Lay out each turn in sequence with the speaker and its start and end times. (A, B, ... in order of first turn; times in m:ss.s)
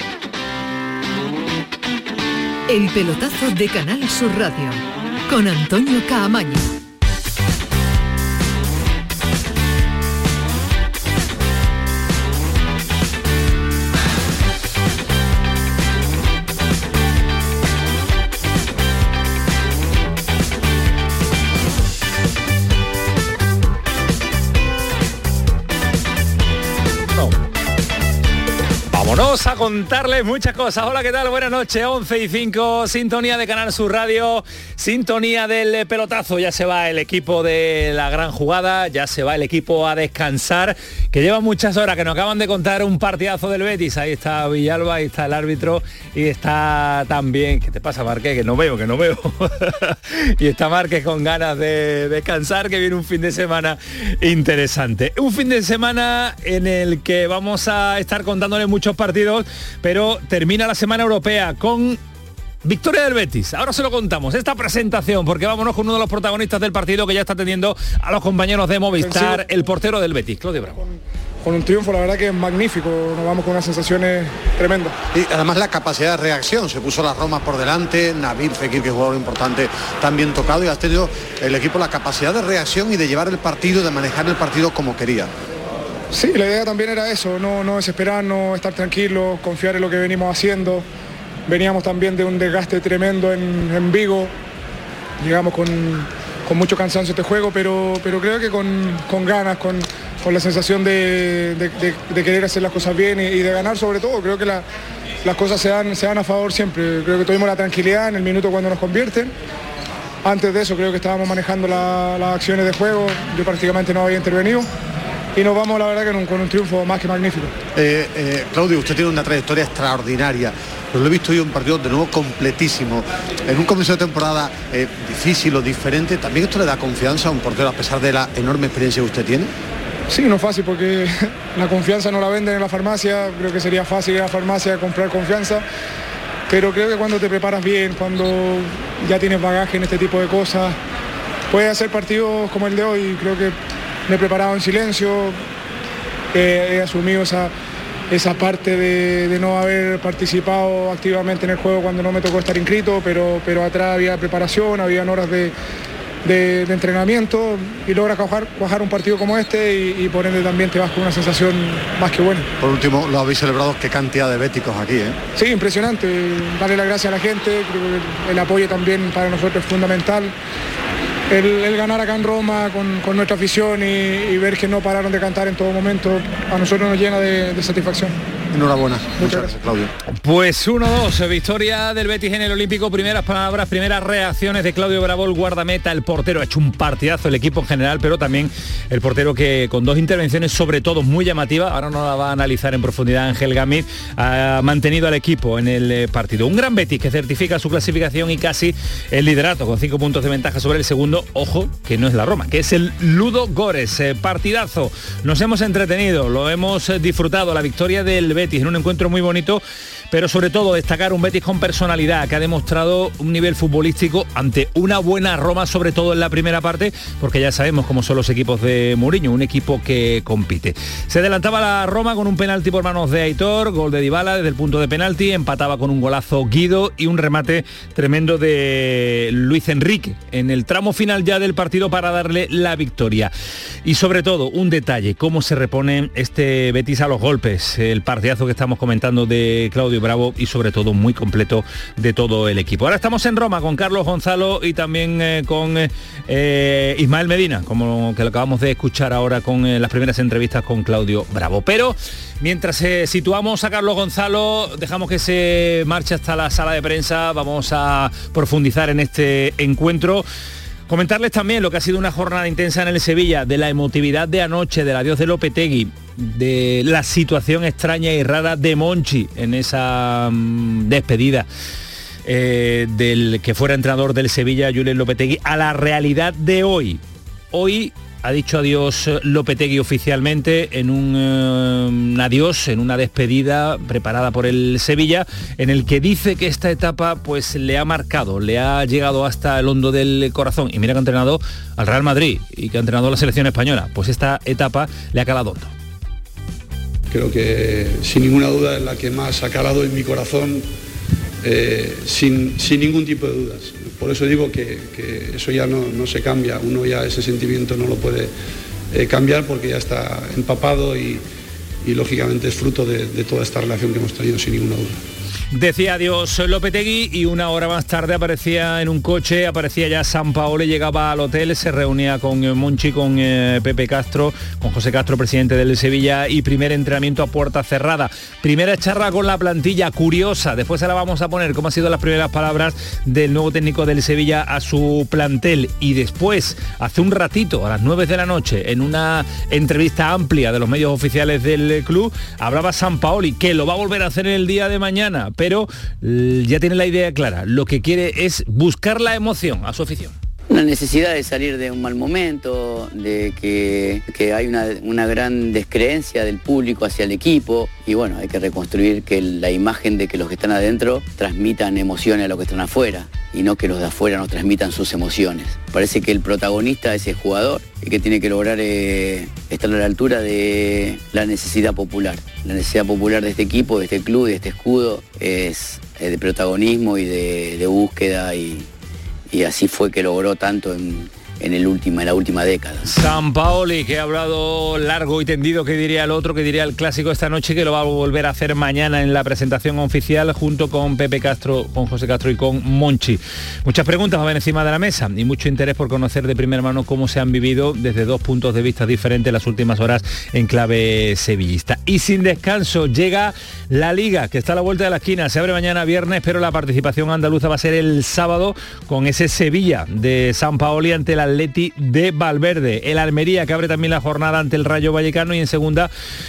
0:02.7-0:06.7 A
0:28.9-1:02.0 B
1:02.6-1:10.8 B
1:09.0-1:09.4 C
1:11.4-1:14.9 C
1:15.1-1:25.3 D
1:26.1-1:30.8 C
1:31.5-1:34.3 C
1:35.2-1:44.6 C
1:45.2-1:49.3 C
1:50.2-1:54.7 C
1:55.3-1:57.5 C
1:57.7-2:09.5 D
2:10.1-2:15.6 C
2:16.5-2:20.8 C
2:21.5-2:23.5 C
2:24.1-2:25.4 C
2:26.3-2:27.5 C
2:28.1-2:35.5 C
2:36.2-2:42.5 C
2:42.6-2:45.2 D
2:45.4-2:50.3 C
2:51.3-2:58.2 C
2:58.5-2:59.9 D
2:59.2-2:59.5 C
3:00.1-3:53.3 B
3:53.8-4:20.2 B
4:20.9-4:31.5 B
4:32.2-4:37.0 B
4:37.5-4:55.7 B
4:57.1-5:00.6 E
5:01.4-5:08.3 E
5:08.9-5:11.2 E
5:11.8-5:15.0 E
5:15.5-5:50.1 B
5:50.5-6:18.7 F
6:19.3-6:22.8 F
6:22.8-6:55.9 B